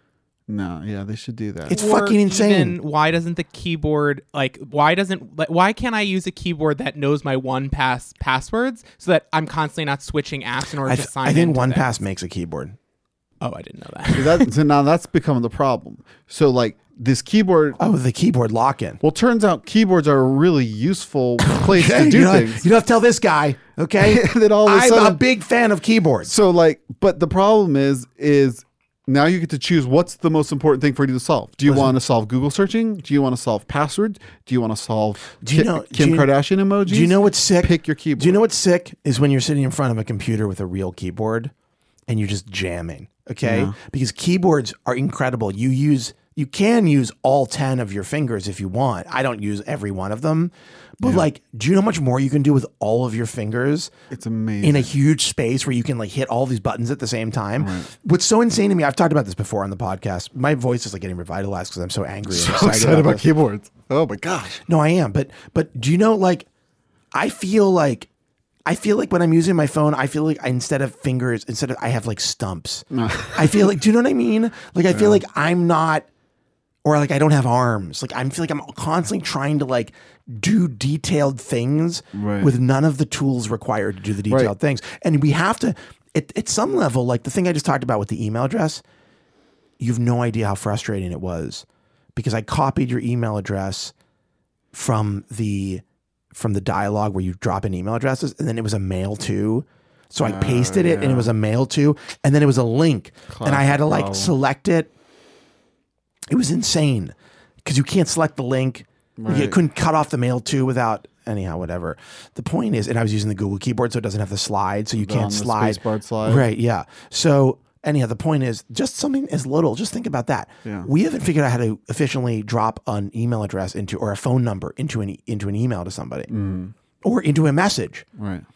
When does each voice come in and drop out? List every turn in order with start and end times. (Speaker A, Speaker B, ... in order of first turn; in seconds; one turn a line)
Speaker A: 0.5-1.8
Speaker B: 1.7-2.8
Speaker C: 1.7-11.9
Speaker B: 10.8-12.8
Speaker C: 13.4-14.5
Speaker A: 14.1-17.8
Speaker B: 17.8-19.0
Speaker A: 19.0-22.6
Speaker B: 21.4-26.3
Speaker A: 24.0-25.2
Speaker A: 26.2-38.4
Speaker B: 35.4-36.3
Speaker B: 36.8-41.5
Speaker B: 42.1-53.9
Speaker A: 43.4-43.7
Speaker A: 54.1-54.9
Speaker B: 54.6-63.2
Speaker A: 57.6-57.9
Speaker A: 62.2-64.6
Speaker B: 64.7-66.5
Speaker B: 67.1-68.1
Speaker B: 68.7-76.1
Speaker A: 72.9-73.5
Speaker A: 74.9-75.2
Speaker B: 76.8-88.8
Speaker A: 82.1-82.5
Speaker B: 89.8-93.9
Speaker B: 94.7-104.9
Speaker A: 100.2-101.3
Speaker A: 103.3-104.3
Speaker B: 106.3-126.3
Speaker A: 109.2-109.6
Speaker A: 115.0-116.4
Speaker A: 126.3-126.7
Speaker B: 127.0-128.1
Speaker A: 128.2-128.4